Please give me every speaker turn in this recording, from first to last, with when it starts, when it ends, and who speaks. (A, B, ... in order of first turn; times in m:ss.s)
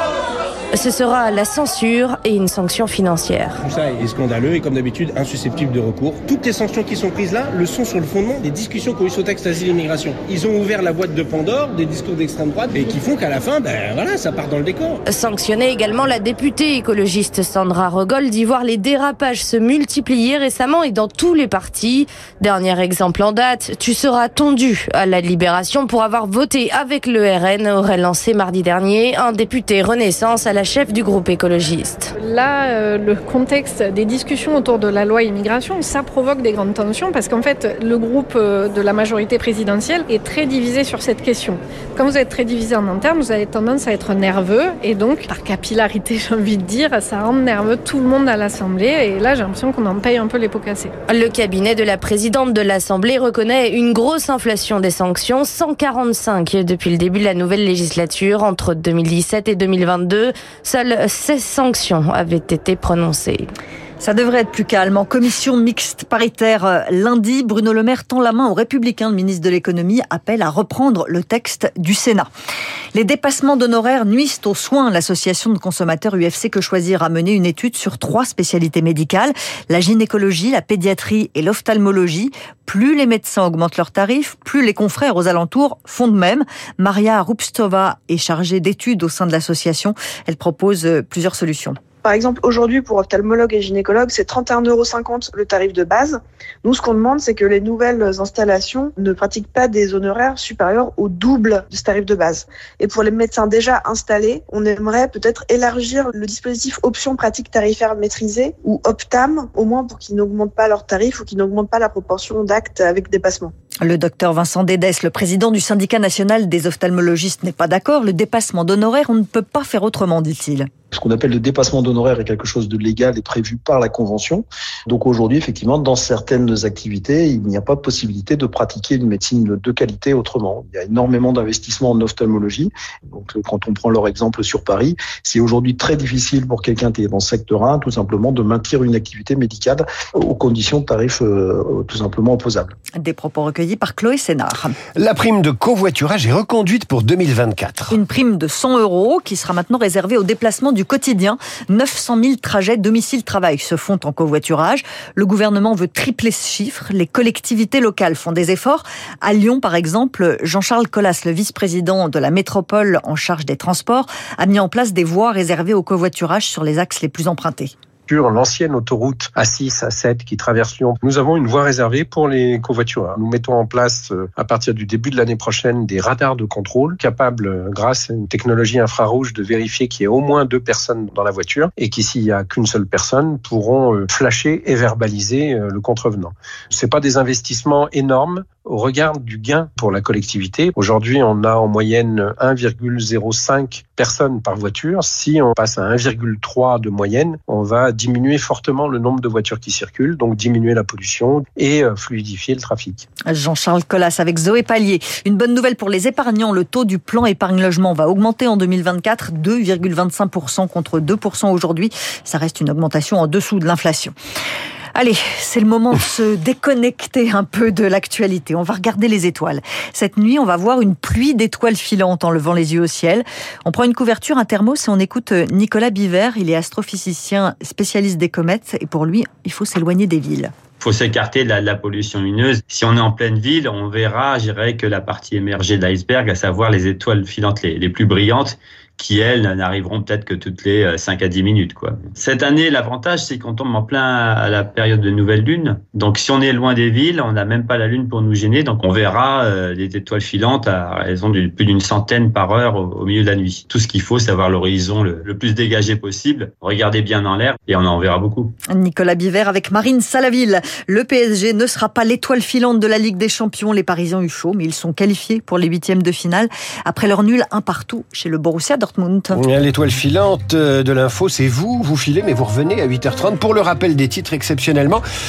0:00.7-0:03.6 A
0:03.6-0:15.0 B
0:15.0-0:32.1 A
0:32.2-0:50.9 C
0:51.1-1:03.5 A
1:04.0-1:12.3 D
1:13.0-1:31.8 D
1:32.0-1:53.5 E
1:53.8-2:00.7 D
2:00.9-2:22.7 F
2:23.0-2:24.8 D
2:25.0-2:28.0 G
2:27.9-2:47.7 D
2:48.1-3:23.0 H
3:23.3-3:34.1 D
3:35.0-3:50.5 D
3:50.8-4:18.5 I
4:18.7-4:29.4 D
4:29.3-4:35.0 G